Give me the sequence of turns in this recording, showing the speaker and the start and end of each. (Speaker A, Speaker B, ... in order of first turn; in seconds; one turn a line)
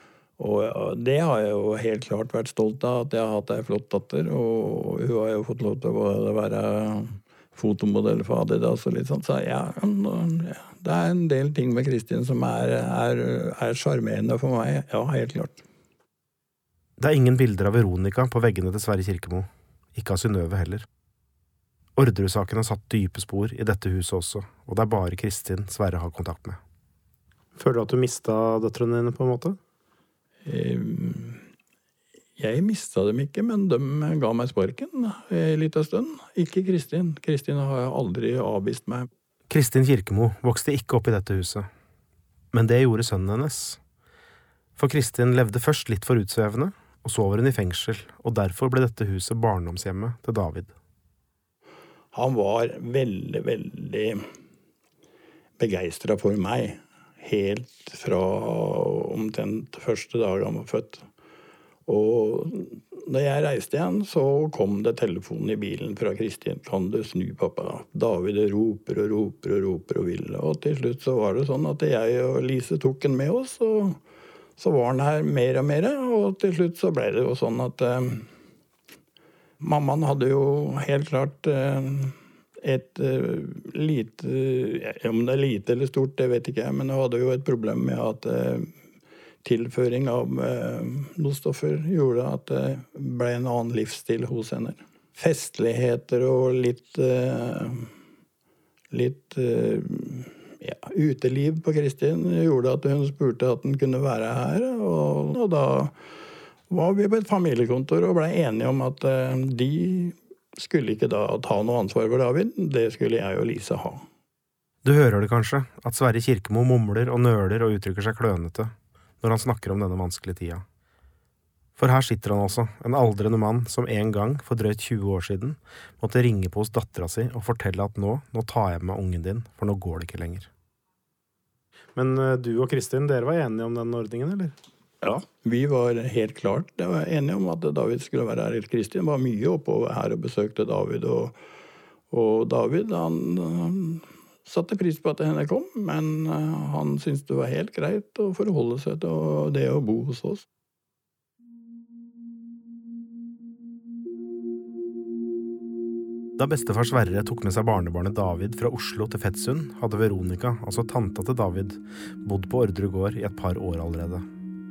Speaker A: 0.4-15.6
Speaker B: 17.0-20.9
Speaker B: 22.0-26.6
Speaker B: 27.6-29.6
Speaker A: 30.4-31.4
Speaker A: 32.4-39.1
Speaker B: 39.5-41.7
Speaker B: 42.5-43.8
Speaker B: 44.8-50.8
Speaker A: 52.1-54.3
Speaker A: 55.6-61.1
Speaker A: 61.9-74.0
Speaker A: 74.6-78.3
Speaker A: 79.6-88.7
Speaker A: 89.5-97.9
Speaker A: 98.9-105.9
Speaker A: 106.7-114.0
Speaker B: 114.8-120.7
Speaker B: 121.8-130.5
Speaker B: 132.0-134.6
Speaker A: 135.0-141.4
Speaker A: 142.1-150.4
Speaker B: 156.4-164.2